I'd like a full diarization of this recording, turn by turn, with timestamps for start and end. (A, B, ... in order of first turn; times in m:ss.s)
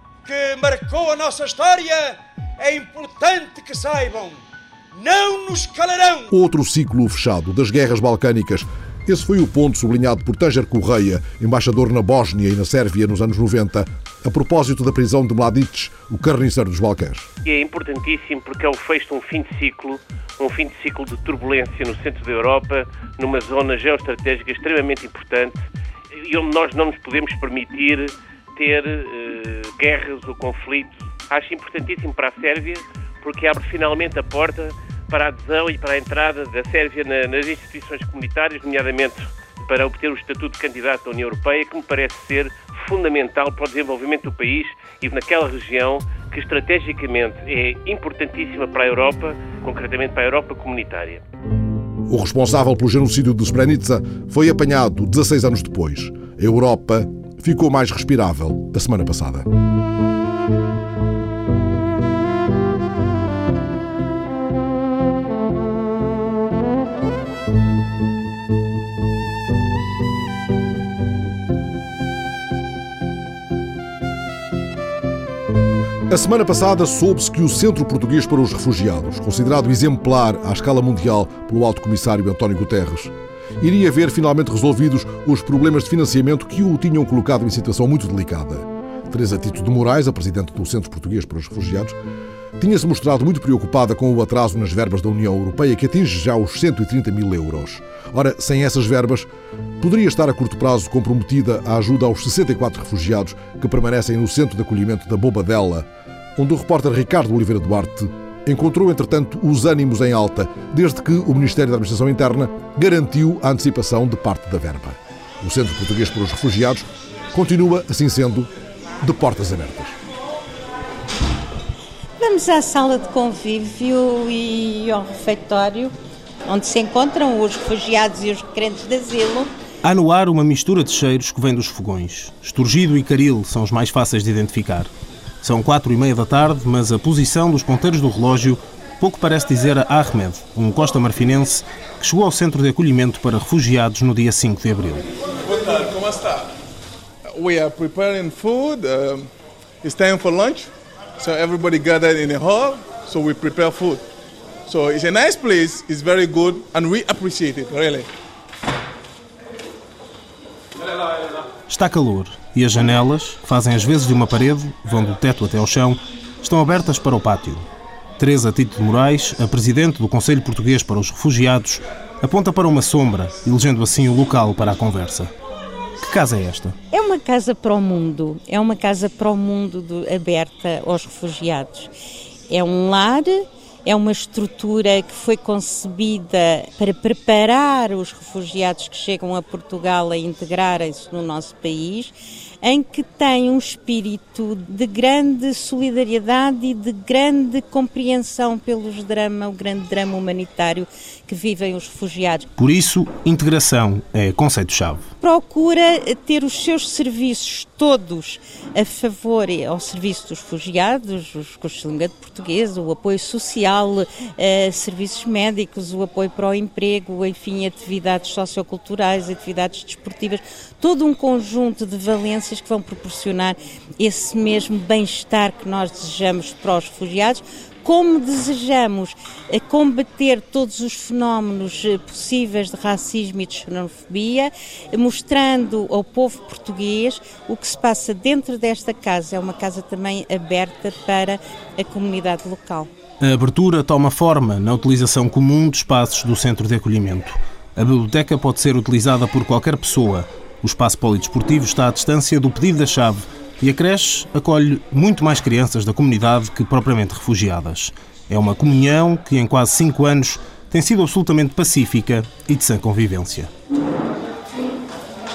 0:00.2-0:06.3 A
0:06.3-0:17.3 B
0:17.4-0:25.6 C
0:26.2-0:51.2 C
0:52.1-0:59.5 B
1:16.1-1:32.0 B
1:32.6-1:39.3 B
1:39.8-1:58.5 B
1:59.0-2:00.0 B
2:02.2-2:05.9 D
2:06.5-2:09.5 D
2:09.8-2:14.9 E
2:15.4-2:25.0 E
2:27.7-2:28.9 F
2:29.9-2:30.6 F
2:31.2-2:34.0 F
2:34.7-2:38.0 F
2:41.7-2:47.6 E
2:48.2-2:55.3 E
2:56.0-2:56.8 E
2:56.9-3:01.9 D
3:02.5-3:22.5 D
3:22.6-3:25.0 E
3:25.2-4:02.9 D
4:03.2-4:23.5 E